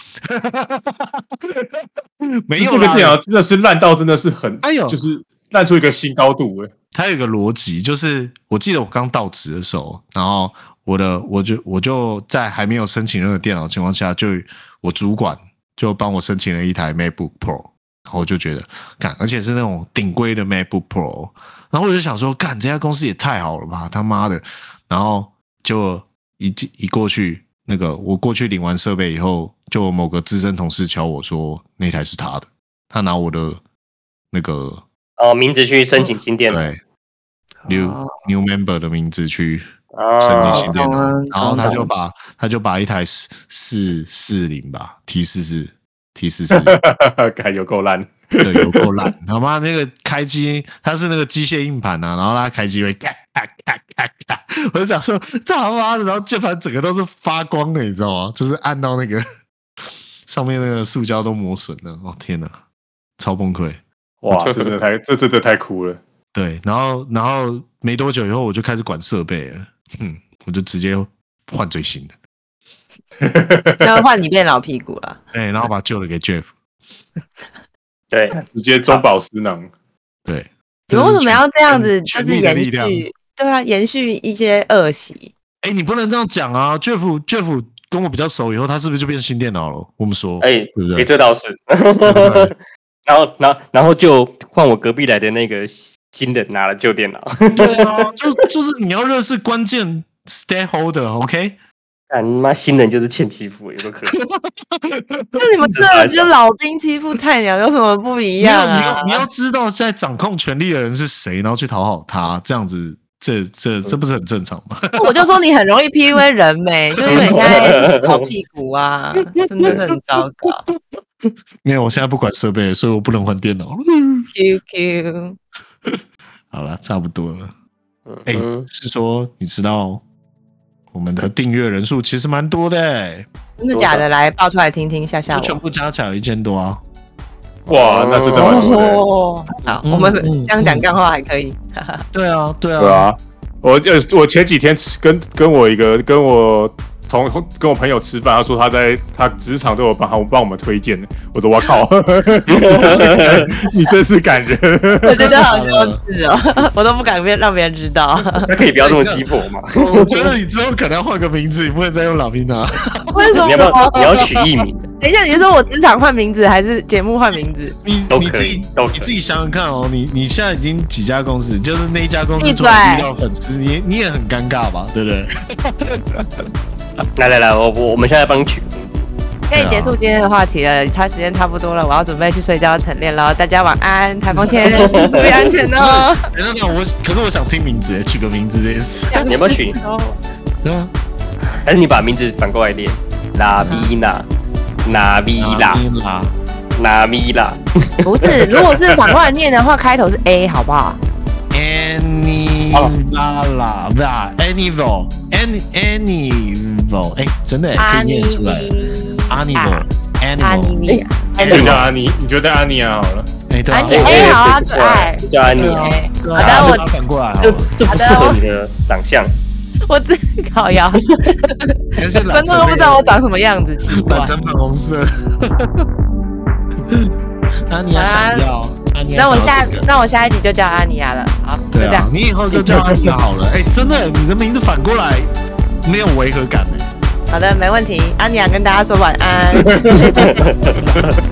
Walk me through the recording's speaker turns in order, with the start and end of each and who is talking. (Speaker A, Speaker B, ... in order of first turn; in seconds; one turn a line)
Speaker A: 0.2-3.2
Speaker B: 2.6-6.7
Speaker A: 4.6-5.0
Speaker A: 6.9-33.6
Speaker A: 34.3-34.8
Speaker C: 35.2-36.6
Speaker A: 36.5-36.8
Speaker D: 37.6-38.1
Speaker A: 37.7-39.7
Speaker C: 39.9-40.7
Speaker A: 40.2-46.8
Speaker D: 40.4-41.9
Speaker B: 46.5-49.1
Speaker A: 48.4-59.2
Speaker A: 60.3-62.6
Speaker A: 63.2-64.7
Speaker B: 64.2-66.0
Speaker A: 66.3-72.1
Speaker B: 73.2-74.0
Speaker D: 73.8-75.2
Speaker A: 75.3-76.5
Speaker C: 78.1-79.0
Speaker B: 78.3-79.7
Speaker A: 80.3-83.1
Speaker D: 80.9-85.3
Speaker A: 85.6-91.1
Speaker C: 90.4-98.1
Speaker A: 92.0-92.5
Speaker A: 97.5-101.6
Speaker C: 102.1-104.2
Speaker A: 104.1-105.5
Speaker D: 105.4-109.2
Speaker C: 105.7-106.3
Speaker A: 108.4-115.3
Speaker D: 115.0-120.6
Speaker A: 117.0-117.8
Speaker C: 117.1-118.3
Speaker A: 119.4-124.3
Speaker D: 124.3-125.4
Speaker A: 126.5-127.5
Speaker C: 128.1-128.7
Speaker A: 128.3-130.0
Speaker A: 130.9-133.3
Speaker D: 133.6-135.6
Speaker C: 133.7-134.1
Speaker A: 135.3-136.8
Speaker B: 137.7-139.1
Speaker C: 137.7-138.8
Speaker D: 138.4-142.0
Speaker A: 139.7-140.9
Speaker A: 142.1-143.1
Speaker B: 142.8-155.4
Speaker C: 152.5-153.5
Speaker D: 155.0-158.5
Speaker A: 155.1-156.0
Speaker C: 158.4-160.3
Speaker A: 158.8-164.6
Speaker D: 163.1-164.2
Speaker C: 163.4-164.9
Speaker D: 165.0-167.8
Speaker A: 167.8-176.4
Speaker C: 168.1-169.1
Speaker D: 172.4-173.1
Speaker C: 177.2-179.1
Speaker D: 179.5-186.3
Speaker A: 179.5-180.0
Speaker A: 184.3-185.2
Speaker C: 184.6-185.5
Speaker A: 185.7-189.3
Speaker D: 189.1-190.2
Speaker C: 189.2-189.8
Speaker A: 190.6-190.9
Speaker C: 191.6-194.3
Speaker D: 193.6-193.9
Speaker C: 194.8-195.8
Speaker A: 195.4-196.3
Speaker C: 196.8-198.5
Speaker D: 198.0-201.0
Speaker A: 201.5-210.8
Speaker D: 207.8-209.9
Speaker D: 210.4-211.8
Speaker A: 211.3-211.9
Speaker B: 211.5-213.3
Speaker A: 213.5-214.4
Speaker D: 213.7-216.9
Speaker C: 213.9-216.8
Speaker A: 215.5-217.7
Speaker C: 217.4-219.3
Speaker D: 217.9-218.4
Speaker D: 219.9-221.7
Speaker A: 222.0-223.2
Speaker D: 222.3-224.3
Speaker A: 223.9-225.8
Speaker A: 226.9-227.1
Speaker A: 227.7-229.9
Speaker D: 227.9-228.4
Speaker D: 229.1-232.6
Speaker A: 231.7-235.3
Speaker A: 235.8-236.9
Speaker D: 237.3-240.2
Speaker B: 239.7-240.3
Speaker C: 240.0-241.1